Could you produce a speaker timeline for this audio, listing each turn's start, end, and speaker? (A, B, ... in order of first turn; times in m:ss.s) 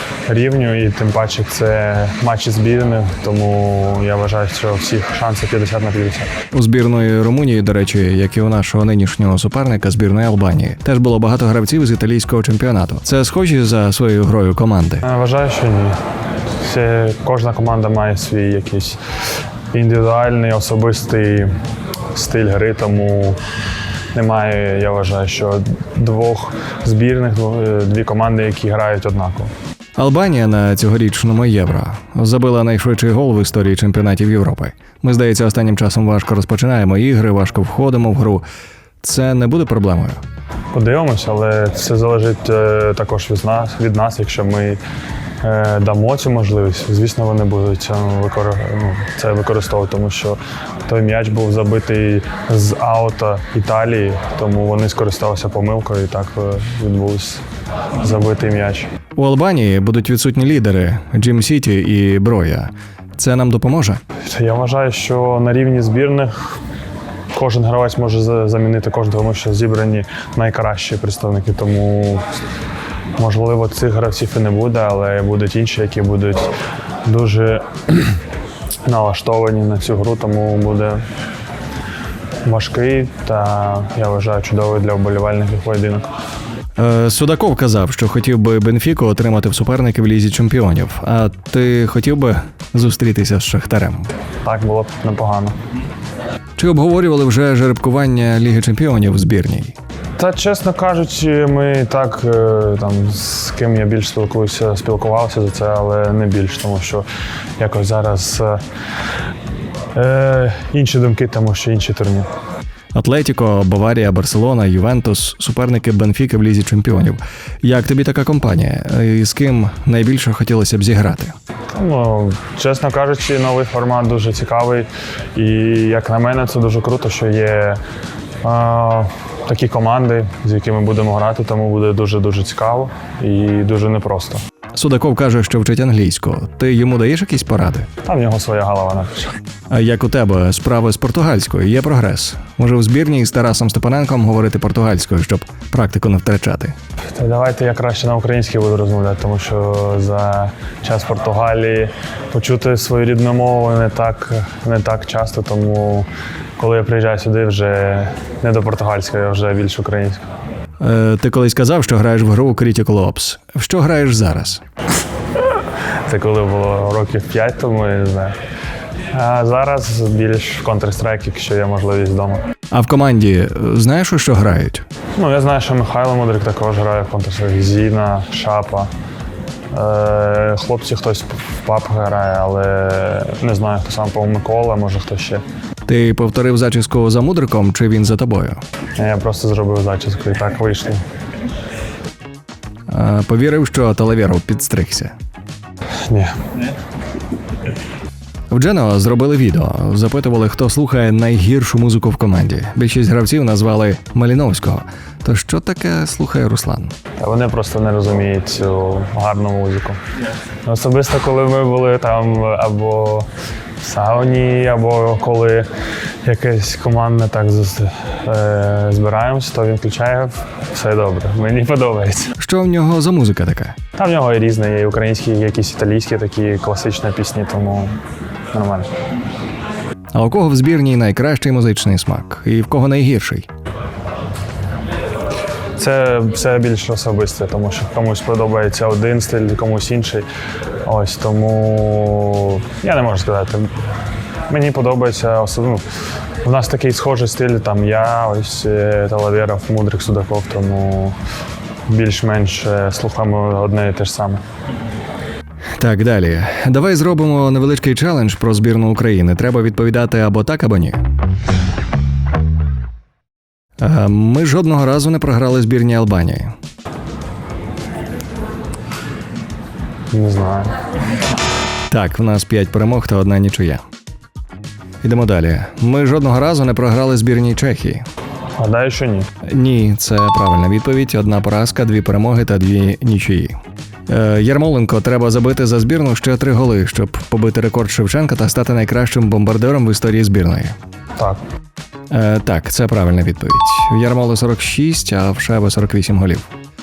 0:00.3-0:06.3 A
0:06.5-0:15.0 B
0:15.0-0:16.0 A
0:16.6-0:19.0 A
0:19.7-0:21.5 A
0:22.1-0:23.4 A
0:24.1-0:29.5 A
0:30.0-0:38.4 B
0:39.0-0:40.2 B
0:40.7-0:44.8 A
0:45.4-0:57.4 A
0:58.0-0:58.9 A
0:59.2-1:04.0 B
1:04.2-1:06.6 A
1:07.3-1:12.3 A
1:13.2-1:16.5 A
1:17.0-1:18.2 A
1:18.8-1:21.0 A
1:22.4-1:26.1 A
1:26.8-1:34.1 B
1:34.4-1:35.6 A
1:36.6-1:39.7 B
1:40.2-1:47.0 A
1:47.6-1:48.6 A
1:49.9-1:52.3 A
1:52.9-2:01.3 B
2:01.7-2:07.8 A
2:08.4-2:14.4 A
2:14.7-2:17.9 B
2:18.0-2:19.3 A
2:19.7-2:26.7 B
2:27.1-2:40.2 A
2:40.8-2:44.6 B
2:46.0-2:48.4 A
2:49.1-2:52.5 A
2:52.7-2:54.8 B
2:55.2-2:58.9 A
2:59.7-3:05.4 A
3:05.8-3:08.6 B
3:09.0-3:11.0 A
3:12.9-3:15.1 B
3:16.1-3:16.5 A
3:18.5-3:26.9 B
3:27.2-3:30.0 A
3:30.6-3:33.3 A
3:33.8-3:35.7 A
3:36.2-3:42.4 A
3:42.4-3:43.8 B
3:44.0-3:48.0 A
3:48.5-3:48.9 A
3:50.1-3:53.5 B
3:55.8-4:00.3 A
4:00.8-4:03.7 A
4:04.5-4:11.2 A
4:11.9-4:14.4 A
4:15.8-4:21.0 B
4:23.8-4:26.5 B
4:30.1-4:30.8 A
4:31.9-4:33.8 B
4:35.0-4:38.1 B
4:38.6-4:39.3 A
4:39.4-4:43.6 B
4:44.1-4:50.8 B
4:52.1-4:56.5 B